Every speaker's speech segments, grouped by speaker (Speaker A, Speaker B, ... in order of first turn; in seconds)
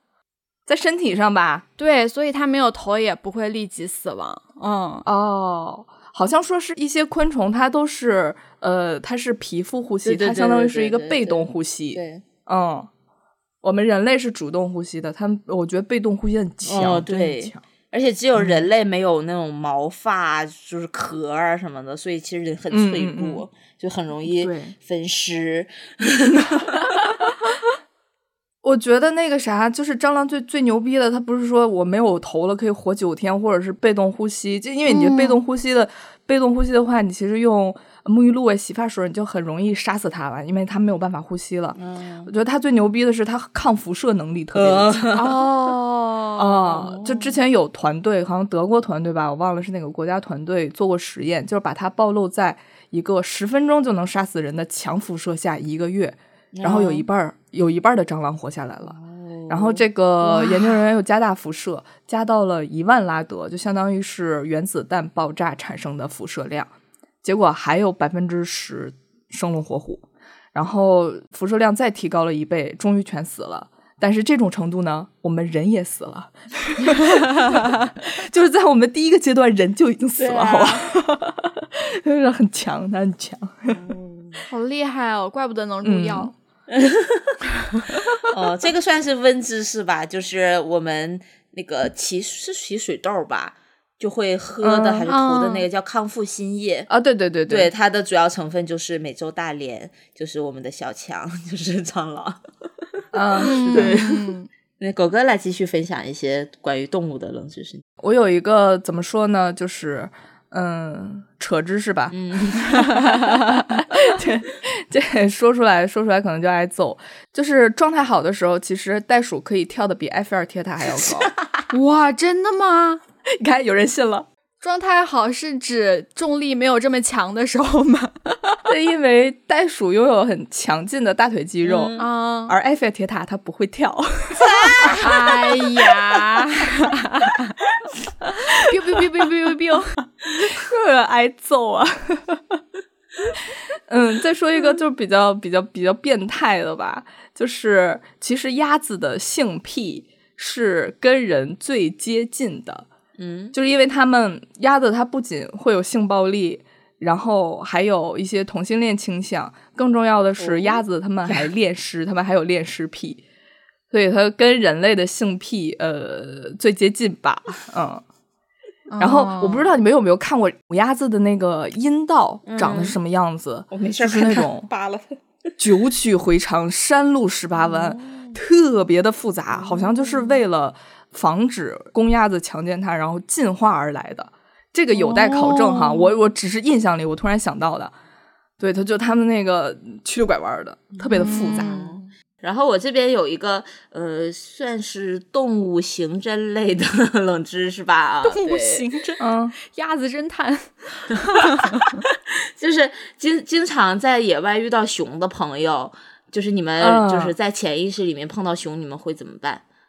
Speaker A: 0.7-1.6, 5.0-12.9, 13.6-17.6, 18.4-18.7, 22.7-23.4, 24.3-24.7, 28.6-45.2, 46.4-59.0, 59.5-66.7, 67.2-70.0, 70.5-83.8, 85.8-86.3, 94.6-95.1, 96.9-97.7, 103.1-104.0, 108.0-121.3, 123.3-124.3, 128.7-135.1, 138.2-139.0, 140.2-142.6, 143.9-152.9, 153.5-163.2, 163.9-168.0, 169.0-174.7, 175.6-187.9, 188.6-191.9, 199.2-199.5, 206.8-207.3
Speaker B: 1.8-5.0, 34.9-35.4, 45.1-47.0, 60.2-60.7, 84.5-86.3, 95.1-95.7, 103.4-104.5, 121.7-123.0, 124.6-128.4, 132.0-132.5, 135.0-137.5, 138.5-139.9, 168.9-169.7, 184.9-186.0, 191.1-192.0, 198.2-201.7
Speaker C: 10.0-12.2, 16.6-26.6, 41.8-42.3, 44.5-45.3, 56.5-57.0, 58.9-59.8, 80.2-80.8, 83.7-84.4, 86.7-87.3, 88.1-96.9, 97.5-102.4, 103.4-104.2, 104.8-107.8, 112.1-112.7, 121.0-121.3, 131.6-132.0, 134.3-135.1, 153.2-153.5, 160.4-160.8, 172.4-173.0, 173.7-175.2, 177.7-178.3, 191.3-198.8, 202.6-209.6